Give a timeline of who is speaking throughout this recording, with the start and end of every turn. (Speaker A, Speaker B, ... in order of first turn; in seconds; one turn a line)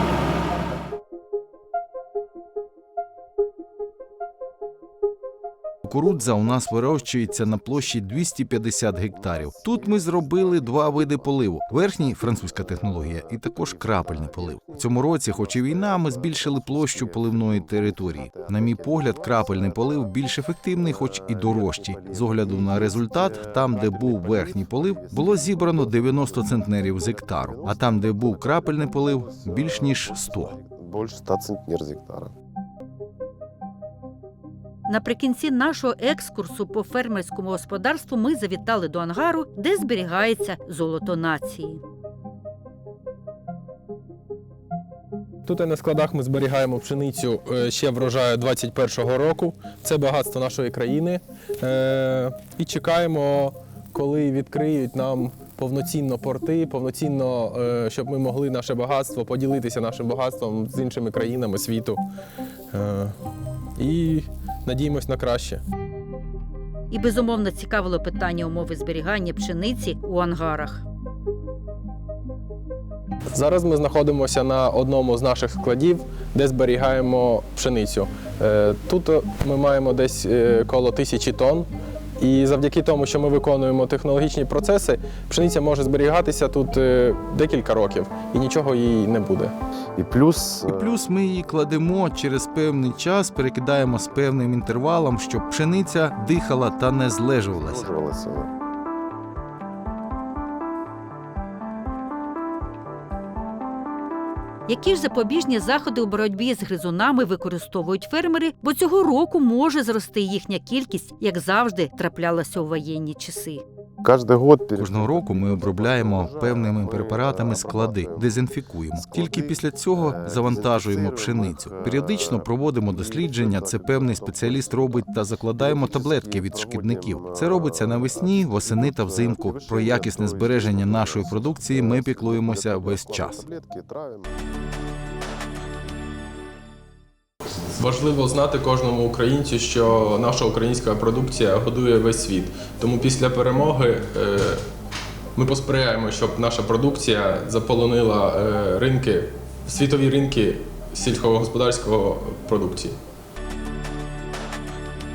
Speaker A: 5.8-30.5
Speaker B: 9.1-20.2
Speaker B: 20.8-32.3
Speaker C: 34.9-41.8
Speaker D: 45.4-62.0
Speaker D: 62.7-63.1
Speaker D: 63.8-65.6
Speaker C: 66.9-70.8
Speaker D: 73.3-89.5
Speaker B: 90.0-90.9
Speaker A: 90.7-97.9
Speaker B: 97.6-98.5
Speaker C: 104.7-113.6
Speaker B: 114.0-118.4
Speaker A: 114.8-133.4
Speaker B: 118.9-134.3
Speaker D: 137.7-144.6
Speaker D: 145.4-153.0